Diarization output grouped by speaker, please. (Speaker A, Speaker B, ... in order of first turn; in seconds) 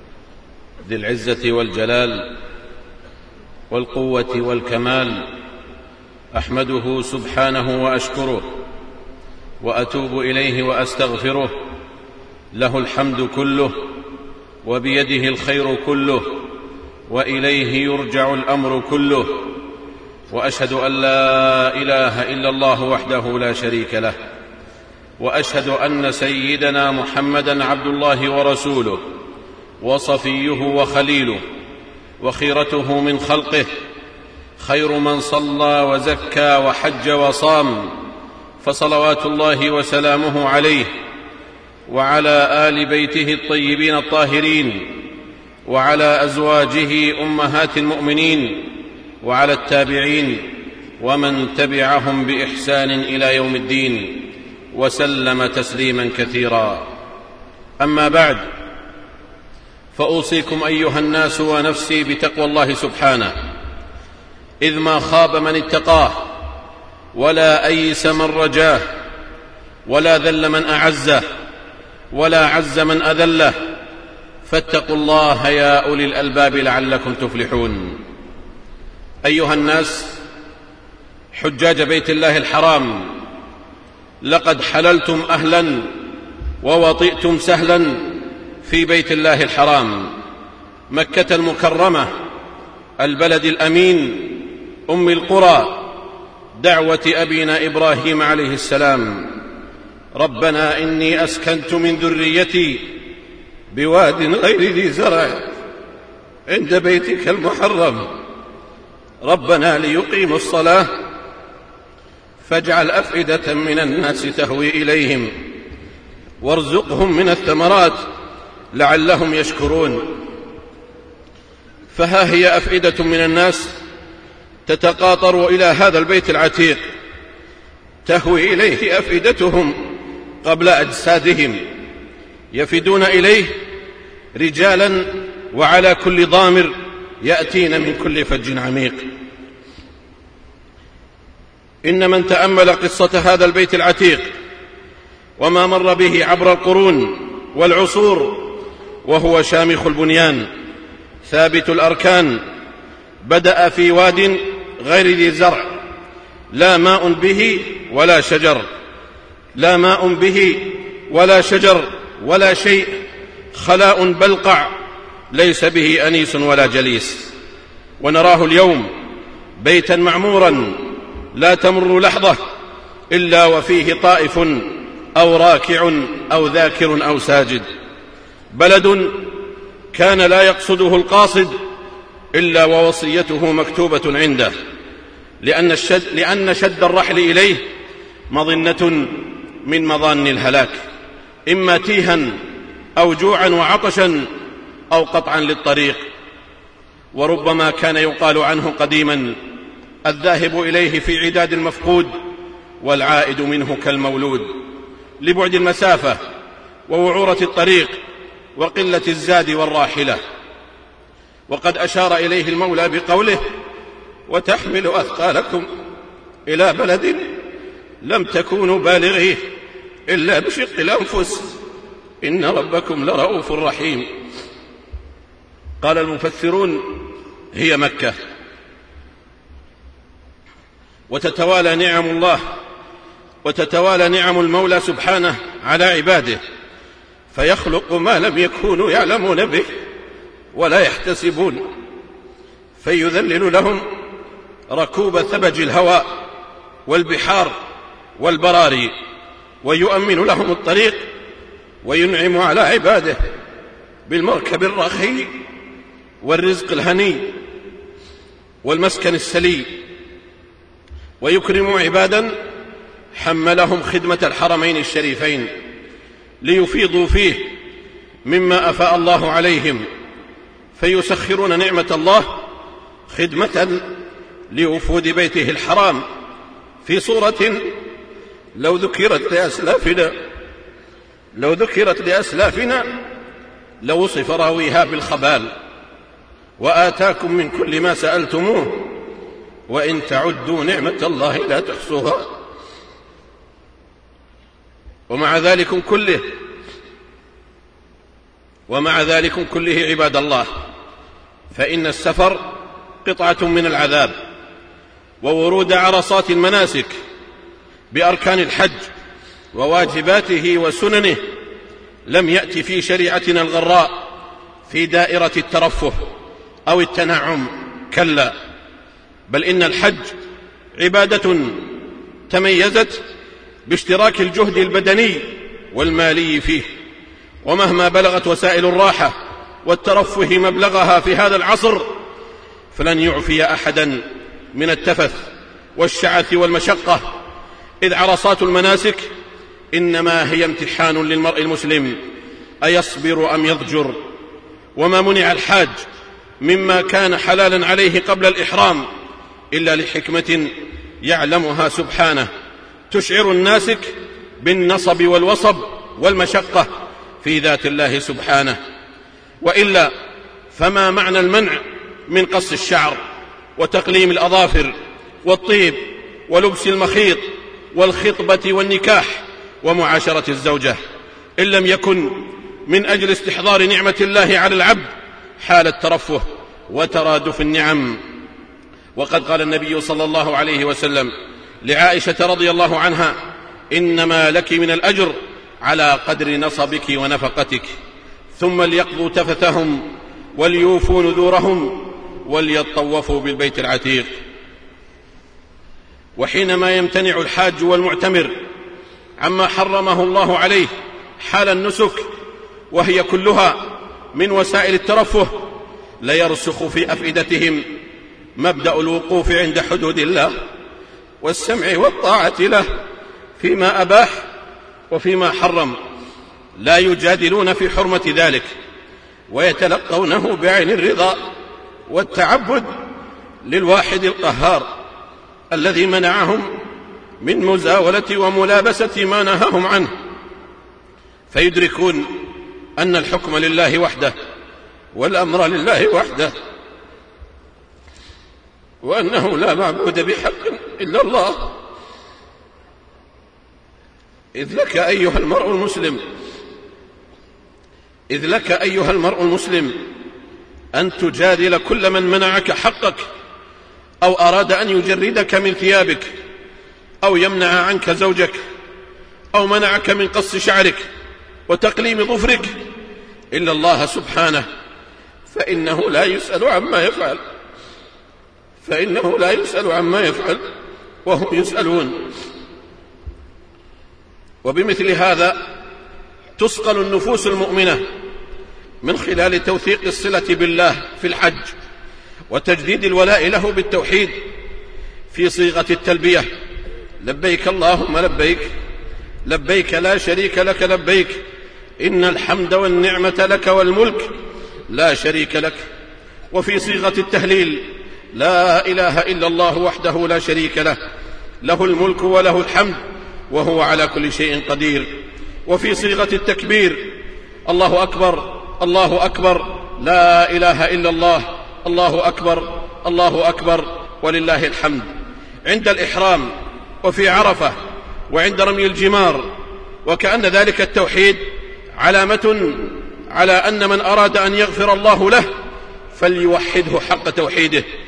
Speaker A: 0.8-2.4, 3.7-5.3, 6.3-8.6, 9.6-11.6, 12.5-13.8, 14.6-16.5, 17.1-19.6, 20.3-24.2, 25.2-29.0, 29.8-31.4, 32.2-33.7, 34.6-38.0, 38.6-40.9, 41.9-45.1, 45.7-56.9, 57.8-58.4, 60.0-63.4, 64.6-66.3, 67.1-68.9, 69.9-71.2, 72.1-73.6, 74.4-78.0, 79.2-80.2, 81.3-83.1, 84.2-85.9, 86.6-90.1, 90.9-92.1, 93.0-96.0, 96.6-99.4, 100.2-103.0, 103.7-105.5, 106.5-108.1, 109.2-110.9, 112.4-115.3, 116.4-118.0, 118.7-120.2, 121.9-123.7, 124.7-126.8, 128.1-129.9, 130.4-131.7, 132.5-133.6, 134.4-139.1, 141.8-144.3, 145.4-150.5, 151.2-152.4, 153.2-155.8, 156.5-158.7, 159.6-163.0, 163.5-164.7, 165.3-167.3, 168.0-168.9, 169.6-172.4, 173.1-177.7, 178.5-179.4, 179.9-181.6, 182.3-184.5, 185.4-187.6, 188.3-190.8, 191.5-192.4, 193.0-194.3, 194.9-196.0, 197.1-199.4, 200.1-202.1, 202.8-204.5, 205.2-206.2, 206.9-207.9, 208.6-210.2, 211.5-213.4, 214.3-215.7, 216.5-217.3, 218.0-219.4, 220.1-221.6, 222.2-224.1, 225.8-228.2, 231.1-232.4, 233.4-236.4, 237.3-239.7, 240.5-241.6, 242.8-243.9, 244.7-246.2, 246.9-247.6, 248.2-248.9, 249.6-251.0, 251.8-253.2, 254.1-255.3, 256.2-257.4, 258.6-259.8, 261.2-262.4, 263.1-265.5, 266.4-267.5, 268.2-269.9, 270.8-272.4, 273.1-273.9, 274.5-276.1, 276.8-277.7, 278.6-280.1, 281.4-283.0, 283.8-285.5, 286.6-288.9, 289.7-292.3, 295.1-296.3, 298.7-300.5, 301.5-304.1, 305.2-306.9, 307.9-308.9, 309.5-311.2, 312.1-314.1, 314.7-316.0, 316.7-318.4, 319.3-320.1, 320.8-321.7, 322.3-323.0, 323.7-326.7, 327.4-331.9, 332.7-337.2, 337.8-339.1, 339.7-342.0, 342.6-344.0, 344.8-345.8, 346.4-348.9, 349.5-352.3, 352.9-356.7, 357.2-358.6, 359.4-359.9, 360.5-363.0, 363.6-370.8, 371.4-374.9, 375.4-378.0, 379.0-383.2, 383.7-387.7, 388.3-394.1, 396.2-398.4, 399.2-402.1, 402.7-405.5, 406.0-407.7, 408.4-410.4, 411.2-412.7, 413.4-414.2, 414.9-415.8, 416.6-418.5, 419.3-421.2, 421.9-422.7, 423.4-424.7, 425.5-426.5, 427.2-429.9, 431.3-432.1, 432.8-434.1, 434.9-436.3, 438.8-441.6, 444.4-446.0, 448.1-449.8, 450.7-453.1, 454.0-456.1, 457.0-458.4, 459.3-460.8, 461.5-462.6, 463.3-464.5, 465.3-467.2, 468.6-470.5, 471.1-472.1, 474.4-475.4, 476.4-477.8, 478.8-481.6, 482.3-484.2, 485.1-486.3, 487.0-488.5, 489.2-491.2, 491.8-494.1, 494.7-495.7, 496.3-500.8, 501.4-502.8, 503.3-514.9, 515.5-516.3, 516.8-517.6, 518.1-519.3, 519.9-521.2, 521.8-525.3, 525.9-527.6